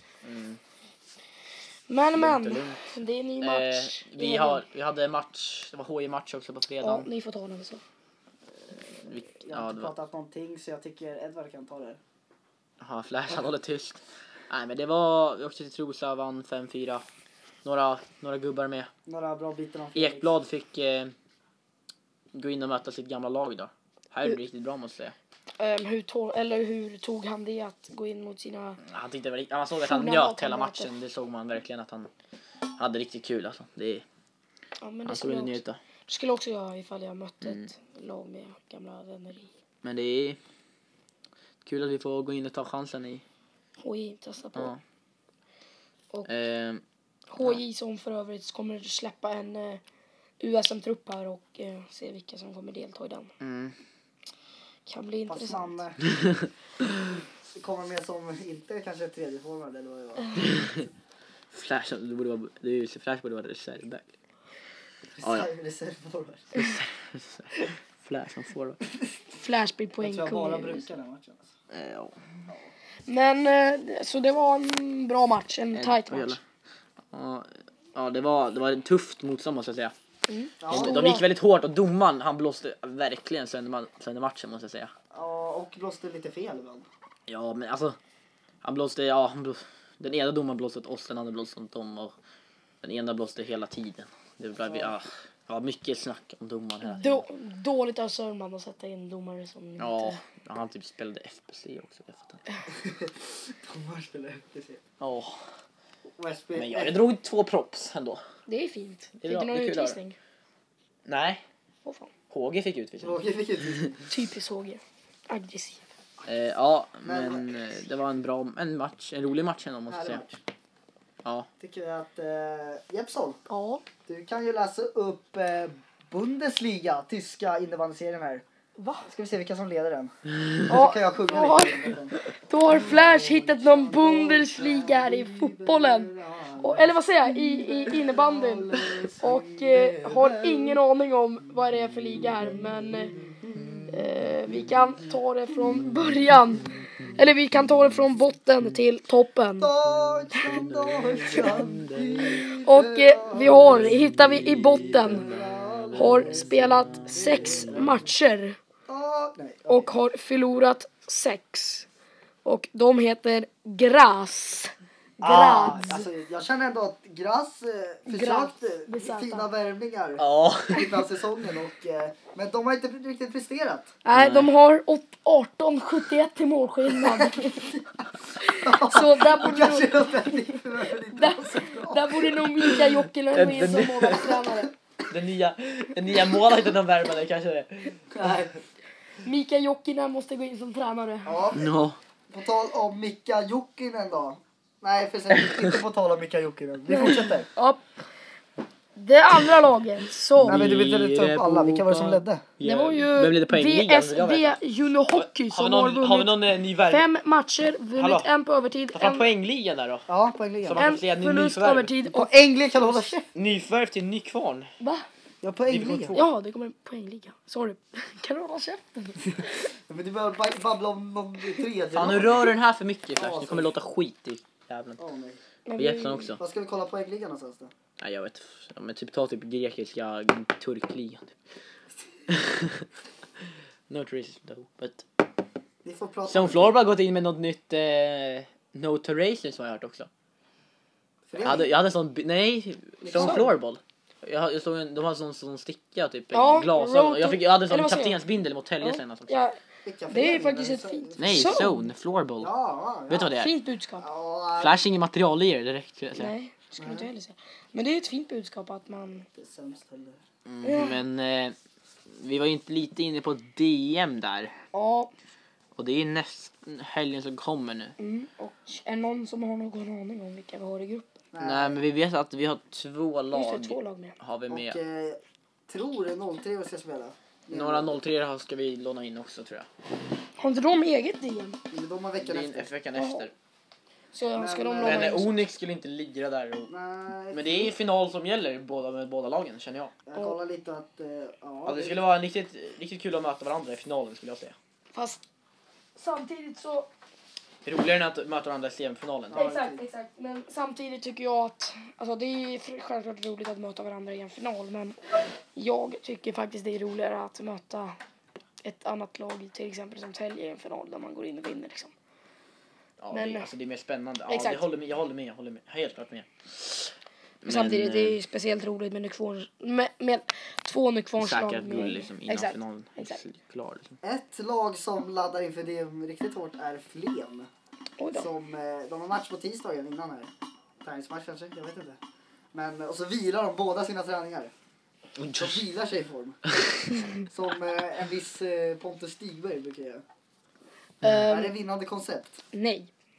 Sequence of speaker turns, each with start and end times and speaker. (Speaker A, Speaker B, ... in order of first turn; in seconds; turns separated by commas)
Speaker A: 0.2-0.6, Speaker B: 1.9-4.6, Speaker A: 2.1-7.1, Speaker B: 6.8-7.8, Speaker C: 8.7-12.0, Speaker A: 9.0-9.9, Speaker A: 12.8-17.0, Speaker A: 17.6-18.9, Speaker C: 19.1-20.4, Speaker A: 19.9-21.1, Speaker A: 22.3-25.1, Speaker B: 25.6-28.8, Speaker A: 28.9-32.1, Speaker B: 29.8-31.0, Speaker A: 32.8-34.0, Speaker B: 34.8-39.5, Speaker A: 35.0-35.8, Speaker A: 37.4-37.7, Speaker A: 39.8-40.4, Speaker A: 41.6-43.2, Speaker B: 43.8-44.7, Speaker A: 44.5-44.8, Speaker A: 46.2-46.8, Speaker B: 47.3-49.8, Speaker B: 50.4-53.3, Speaker A: 53.4-53.7, Speaker B: 54.9-55.8, Speaker C: 55.3-56.0, Speaker C: 57.5-60.4, Speaker A: 60.4-60.9, Speaker A: 61.5-64.1, Speaker C: 65.2-66.5, Speaker A: 65.2-65.5, Speaker A: 66.5-68.8, Speaker B: 69.3-70.9, Speaker C: 70.0-71.5, Speaker A: 71.7-72.1, Speaker B: 73.1-76.4, Speaker A: 75.7-76.4, Speaker A: 77.1-79.9, Speaker B: 80.3-81.2, Speaker C: 80.6-81.2, Speaker A: 80.7-84.9, Speaker C: 85.1-86.9, Speaker A: 87.3-88.0, Speaker A: 88.6-92.1, Speaker A: 92.8-97.2, Speaker C: 94.6-94.9, Speaker B: 96.8-100.2, Speaker A: 99.8-102.4, Speaker C: 102.7-104.8, Speaker A: 105.0-105.3, Speaker C: 106.2-107.0, Speaker A: 106.5-108.2, Speaker B: 108.5-110.2, Speaker A: 109.2-110.0, Speaker A: 111.0-111.4, Speaker B: 111.8-112.1, Speaker A: 112.3-113.2, Speaker C: 113.0-114.0, Speaker B: 114.1-115.8, Speaker A: 116.2-120.2, Speaker C: 117.0-117.6, Speaker C: 119.9-120.4, Speaker C: 121.6-123.4, Speaker B: 123.5-123.8, Speaker C: 124.0-128.4, Speaker B: 128.8-129.1, Speaker C: 129.0-130.1, Speaker B: 130.7-131.9, Speaker C: 130.7-132.2, Speaker B: 132.5-143.1, Speaker C: 132.7-140.8, Speaker A: 143.6-143.9, Speaker B: 143.9-149.7, Speaker C: 149.6-153.8, Speaker A: 150.4-152.4, Speaker B: 151.2-151.6, Speaker B: 152.2-155.3, Speaker C: 155.0-156.5, Speaker B: 155.9-158.6, Speaker C: 158.9-159.9, Speaker B: 159.7-161.9, Speaker B: 162.4-166.1, Speaker C: 165.2-173.9, Speaker B: 168.1-169.5, Speaker A: 170.2-171.0, Speaker B: 174.0-177.7, Speaker A: 174.1-174.5, Speaker C: 176.9-177.8, Speaker B: 178.4-184.7, Speaker C: 178.6-182.3, Speaker A: 182.6-184.4, Speaker A: 185.1-188.0, Speaker C: 188.1-188.6, Speaker B: 189.2-191.4, Speaker C: 191.2-191.7, Speaker A: 191.5-192.0, Speaker C: 192.3-197.5, Speaker B: 196.9-197.8, Speaker B: 198.9-200.6, Speaker A: 200.4-204.6, Speaker C: 200.4-202.4, Speaker B: 202.6-209.3, Speaker A: 205.1-207.1, Speaker A: 207.9-208.3, Speaker A: 208.9-210.1, Speaker C: 210.1-210.9, Speaker A: 210.6-211.9, Speaker B: 210.8-213.1, Speaker C: 212.1-213.3, Speaker A: 213.3-214.7, Speaker B: 214.8-215.1, Speaker C: 215.4-216.2, Speaker A: 215.7-216.3, Speaker B: 216.1-219.7, Speaker C: 219.9-222.5, Speaker A: 221.9-225.0, Speaker C: 223.2-223.7, Speaker C: 225.0-225.4, Speaker B: 225.7-226.3, Speaker A: 225.8-226.4, Speaker C: 226.4-227.7, Speaker A: 228.0-231.3, Speaker A: 232.3-232.9, Speaker A: 233.9-235.0, Speaker C: 235.8-236.8, Speaker A: 236.2-240.1, Speaker C: 241.3-241.7, Speaker A: 241.4-249.3, Speaker C: 243.0-243.5, Speaker B: 243.1-243.4, Speaker B: 246.3-248.2, Speaker B: 248.8-249.6, Speaker C: 249.8-251.7, Speaker B: 250.1-251.9, Speaker A: 251.2-252.5, Speaker C: 252.4-253.3, Speaker A: 253.1-253.5, Speaker B: 253.2-254.0, Speaker C: 254.0-254.8, Speaker A: 254.6-256.3, Speaker B: 256.1-259.2, Speaker C: 256.8-257.1, Speaker C: 259.3-260.2, Speaker A: 260.4-261.5, Speaker B: 260.6-261.0, Speaker A: 262.1-264.5, Speaker B: 264.7-265.1, Speaker A: 265.8-267.9, Speaker B: 268.0-271.1, Speaker C: 271.3-271.8, Speaker A: 271.4-274.8, Speaker B: 273.3-274.1, Speaker C: 274.5-277.9, Speaker A: 277.5-279.7, Speaker B: 280.4-281.6, Speaker C: 281.7-282.7, Speaker A: 282.2-283.3, Speaker B: 282.9-283.3, Speaker B: 284.1-285.3, Speaker C: 284.4-285.2, Speaker A: 284.8-286.7, Speaker C: 286.7-287.7, Speaker A: 287.3-289.9, Speaker C: 290.1-292.0, Speaker A: 291.6-294.5, Speaker B: 294.9-295.2, Speaker B: 295.9-296.9, Speaker A: 297.6-299.4, Speaker C: 299.3-299.8, Speaker B: 299.3-305.0, Speaker B: 305.5-307.9, Speaker B: 308.6-311.9, Speaker A: 313.0-316.9, Speaker B: 313.1-313.5, Speaker B: 314.3-314.7, Speaker A: 317.4-318.2, Speaker B: 317.4-323.2, Speaker A: 321.2-323.9, Speaker C: 324.0-327.5, Speaker B: 328.0-328.3, Speaker C: 328.1-330.3, Speaker C: 330.8-332.0, Speaker C: 332.5-334.5, Speaker A: 335.2-335.6, Speaker C: 335.3-336.4, Speaker C: 337.3-340.0, Speaker A: 341.0-341.3, Speaker B: 341.0-341.5, Speaker C: 341.2-342.4, Speaker B: 342.5-342.9